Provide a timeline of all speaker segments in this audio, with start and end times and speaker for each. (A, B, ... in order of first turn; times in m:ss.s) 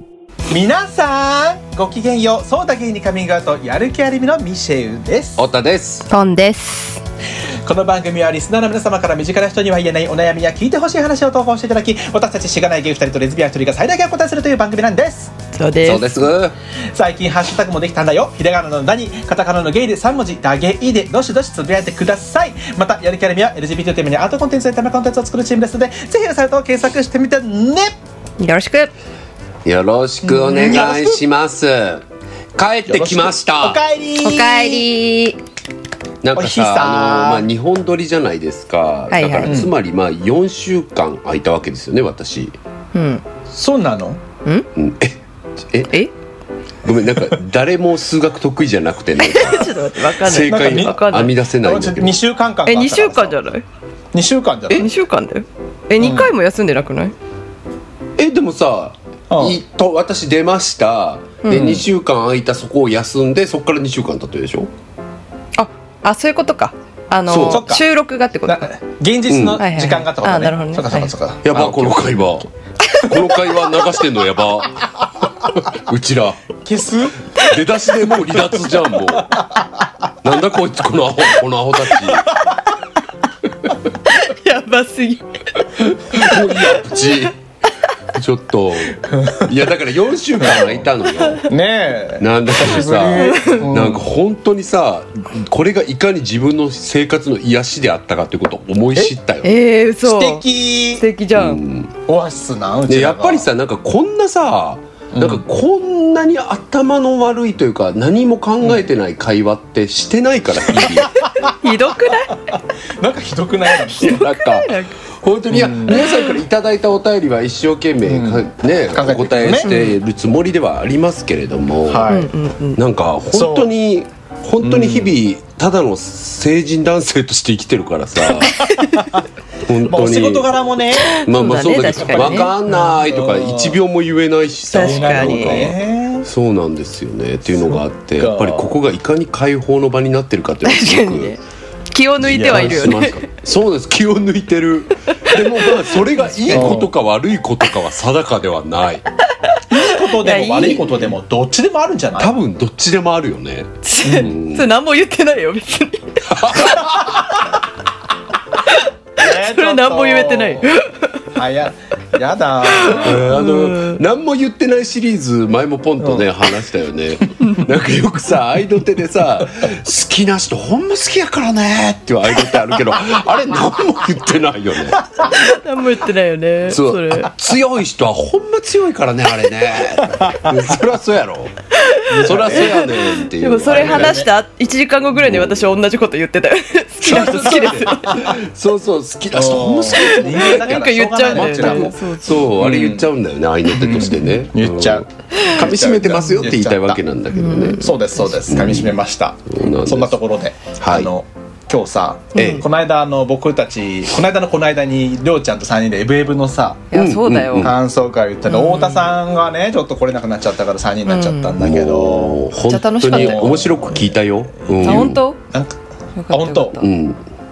0:00.5-0:05.4 A
0:05.4-0:06.1 B
0:06.1-0:07.0 C
0:07.6-0:15.3 A
0:15.6-0:16.3 C
0:15.8-0:16.6 B
0:16.9-0:27.9 A
0:28.4-0:28.9 C
0:29.6-0:32.0 B
0:30.3-0:30.8 C
0:30.5-0:31.2 A
0:32.6-0:33.8 B
0:32.9-0:34.8 A
0:34.2-0:35.4 C
0:36.2-0:42.6 B
0:36.3-0:37.5 A
0:39.1-0:39.6 C
0:39.4-0:39.7 A
0:42.9-0:43.2 C
0:43.5-0:44.2 A
0:44.7-0:46.0 B
0:46.8-0:52.2 B
0:49.2-0:51.3 C
0:50.4-0:51.1 A
0:51.6-0:53.3 A
0:52.7-0:53.6 C
0:54.1-0:54.9 A
0:54.8-0:57.2 C
0:56.0-0:56.3 A
0:58.2-1:04.7 B
0:59.3-0:59.6 A
1:01.4-1:01.8 C
1:01.5-1:01.8 A
1:05.6-1:08.7 C
1:07.3-1:07.7 B
1:07.3-1:07.8 A
1:08.5-1:12.4 A
1:09.3-1:09.6 B
1:09.6-1:11.1 C
1:11.4-1:15.0 B
1:15.5-1:16.4 B
1:16.6-1:17.2 A
1:17.4-1:19.4 B
1:20.2-1:22.3 B
1:24.1-1:27.2 C
1:26.0-1:27.3 B
1:28.1-1:31.5 B
1:29.2-1:29.4 A
1:30.4-1:30.8 A
1:31.5-1:34.1 A
1:32.2-1:39.5 B
1:33.2-1:33.6 C
1:39.4-1:40.4 C
1:40.0-1:41.0 A
1:41.0-1:41.6 C
1:41.3-1:41.9 B
1:42.1-1:43.5 A
1:42.9-1:51.1 B
1:45.1-1:45.4 A
1:50.8-1:51.5 A
1:51.6-1:52.4 C
1:52.5-1:54.2 A
1:53.9-1:54.9 C
1:54.0-2:02.1 B
1:55.5-1:56.0 A
1:55.9-1:56.3 C
1:58.1-1:59.8 A
2:01.9-2:02.3 A
2:02.1-2:02.8 C
2:02.8-2:08.6 B
2:03.3-2:03.7 A
2:04.6-2:05.1 A
2:08.5-2:09.1 C
2:09.6-2:10.6 B
2:09.8-2:11.1 A
2:11.1-2:21.4 B
2:11.1-2:12.5 C
2:12.1-2:13.8 A
2:14.7-2:15.7 C
2:14.7-2:16.2 A
2:17.7-2:18.7 A
2:20.6-2:21.4 C
2:21.9-2:23.2 C
2:22.2-2:29.0 B
2:22.2-2:23.1 A
2:25.2-2:26.8 C
2:26.5-2:26.9 A
2:29.7-2:30.8 C
2:29.7-2:32.3 A
2:32.2-2:34.7 B
2:33.8-2:37.1 C
2:34.0-2:34.3 A
2:36.3-2:37.2 B
2:38.7-2:41.2 C
2:39.2-2:40.7 A
2:41.3-2:43.2 A
2:42.6-2:44.0 C
2:42.9-2:55.0 B
2:46.0-2:46.3 A
2:55.2-2:57.3 C
2:56.7-3:01.5 B
3:01.8-3:08.3 C
3:02.1-3:02.7 A
3:02.2-3:04.2 B
3:03.7-3:04.3 A
3:05.2-3:05.7 B
3:07.0-3:10.6 B
3:09.3-3:12.0 A
3:10.0-3:12.5 C
3:11.3-3:17.9 B
3:12.6-3:13.1 A
3:13.7-3:17.0 A
3:17.3-3:18.7 C
3:17.8-3:26.9 A
3:18.5-3:19.0 B
3:19.5-3:20.2 B
3:20.8-3:21.1 B
3:22.3-3:22.6 C
3:22.4-3:22.6 B
3:26.9-3:27.7 C
3:26.9-3:27.8 B
3:27.6-3:32.4 A
3:28.5-3:29.1 C
3:31.1-3:31.6 C
3:31.6-3:35.2 B
3:32.6-3:33.8 C
3:33.1-3:35.8 A
3:34.8-3:35.4 C
3:36.2-3:36.8 C
3:36.3-3:36.8 A
3:36.8-3:37.2 B